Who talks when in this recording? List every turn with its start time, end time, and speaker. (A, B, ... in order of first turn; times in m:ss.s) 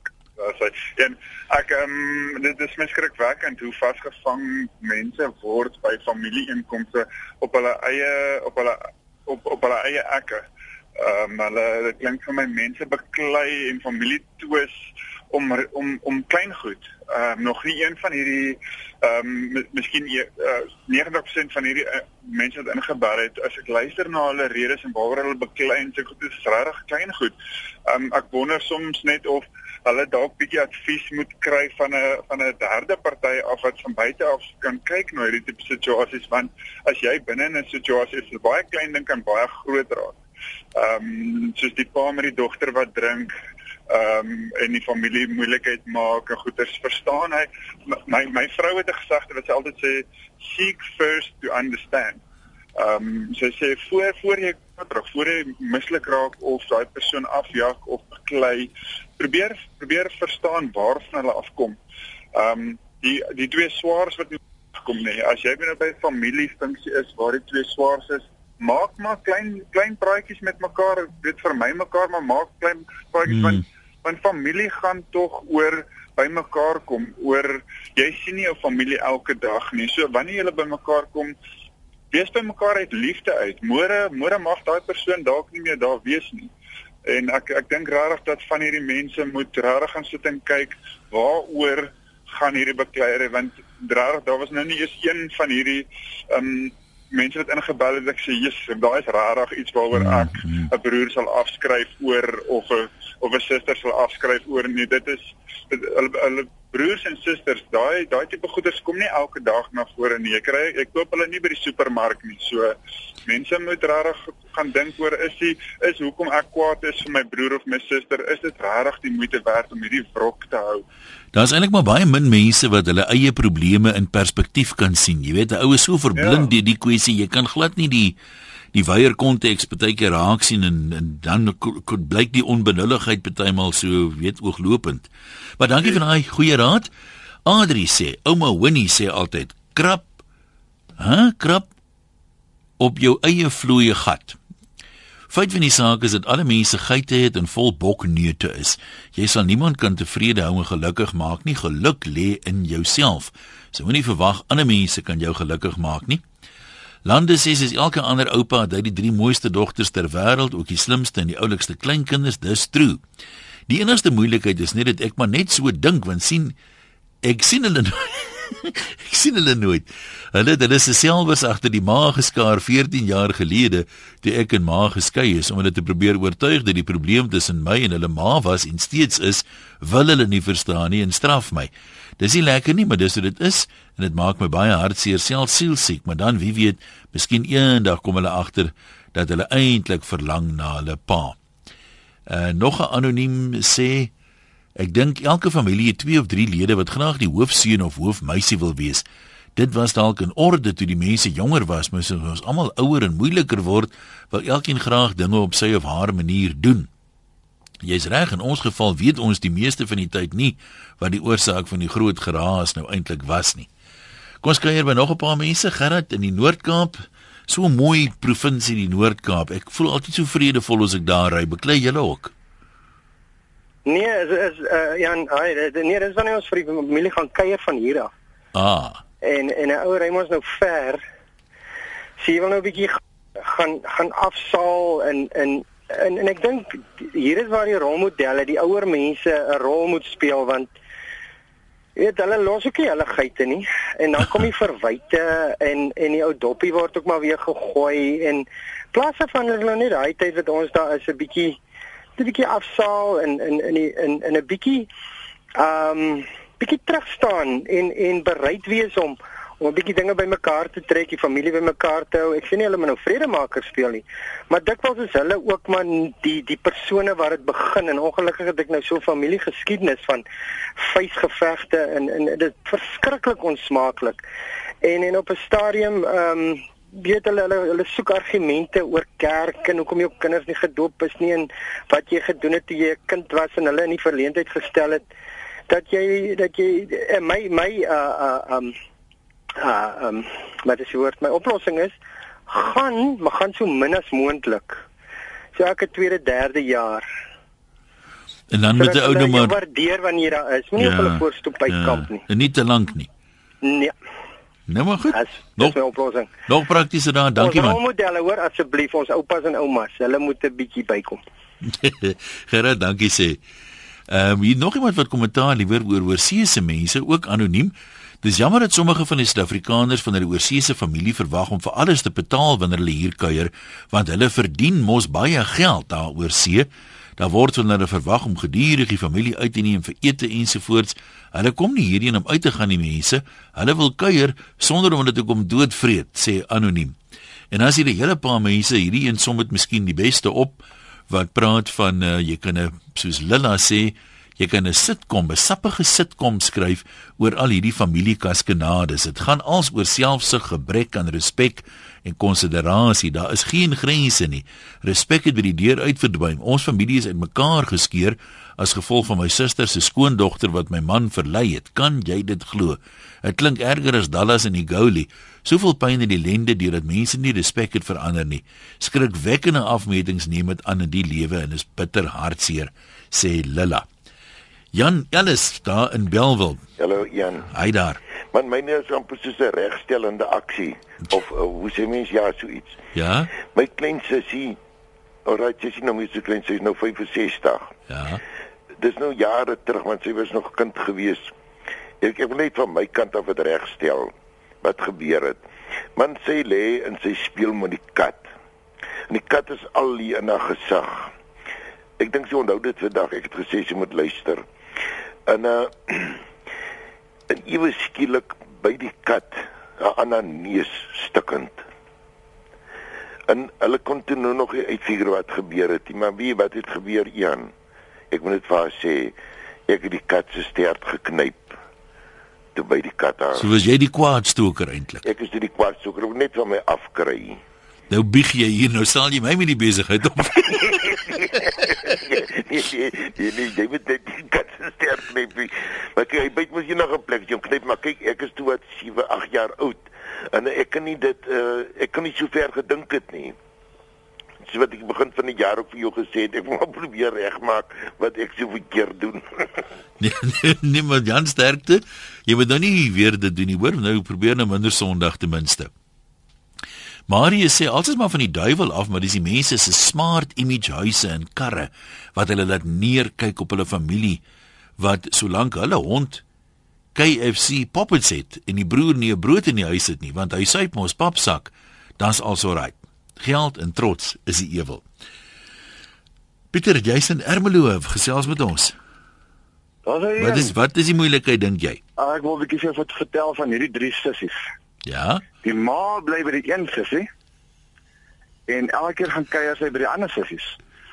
0:00.4-0:10.4 A
0:11.0-0:14.8 A
0:15.3-0:27.3 A
0:27.9-0:40.2 A
0:40.7-0:43.3 A
0:43.9-0:52.2 A
0:52.8-1:01.8 A
1:02.3-1:21.3 A
1:13.3-1:13.6 B
1:22.1-1:26.5 A
1:27.0-2:00.8 A
1:39.9-1:40.7 B
2:01.3-2:08.2 B
2:06.1-2:06.5 A
2:08.7-2:16.9 B
2:17.4-2:20.1 B
2:21.0-2:21.7 B
2:22.8-2:24.4 B
2:25.3-2:36.2 B
2:37.0-2:43.0 B
2:43.7-2:46.5 B
2:47.2-3:11.4 B
3:12.3-3:14.1 B
3:14.8-3:19.0 B
3:19.6-3:26.9 B
3:27.8-3:33.7 B
3:34.4-3:42.3 B
3:43.8-3:48.1 C
3:48.5-3:49.0 B
3:49.2-3:51.0 C
3:52.2-4:00.7 C
4:02.0-4:11.6 C
4:12.2-4:14.9 C
4:15.6-4:30.2 C
4:30.8-4:34.2 C
4:34.8-4:45.0 C
4:45.7-4:48.8 C
4:49.6-4:52.0 C
4:52.5-4:54.8 C
4:55.5-4:57.0 C
4:58.5-4:59.5 B
4:58.8-5:02.2 C
5:00.8-5:03.1 B
5:03.6-5:03.9 C
5:04.7-5:05.8 B
5:05.1-5:06.3 C
5:06.5-5:07.8 B
5:07.4-5:11.2 C
5:11.6-5:13.4 B
5:14.1-5:36.9 B
5:37.5-6:13.9 B
6:14.7-6:16.6 B
6:16.8-6:17.5 D
6:17.5-6:18.0 B
6:18.3-6:22.8 D
6:22.9-6:23.3 B
6:23.4-6:24.6 D
6:25.2-6:27.7 D
6:27.9-6:28.2 B
6:28.8-6:31.3 D
6:32.0-6:34.1 D
6:34.6-6:35.4 D
6:36.0-6:38.2 D
6:39.1-6:41.1 D
6:42.0-6:44.4 D
6:45.3-6:46.2 D
6:47.3-6:51.6 D
6:53.3-6:57.5 D
6:58.1-6:59.2 D
6:59.7-7:01.6 D
7:02.5-7:03.5 D
7:03.4-7:05.0 B
7:05.0-7:07.4 D
7:07.9-7:10.9 B
7:10.3-7:23.3 D
7:24.4-7:29.6 D
7:30.0-7:35.7 B
7:37.1-7:44.2 B
7:44.8-7:46.2 B
7:46.9-7:54.8 B
7:56.5-7:58.7 B
7:59.8-8:00.5 E
8:00.2-8:01.8 B
8:02.0-8:04.4 E
8:04.8-8:05.2 B
8:05.4-8:07.1 E
8:08.5-8:10.6 E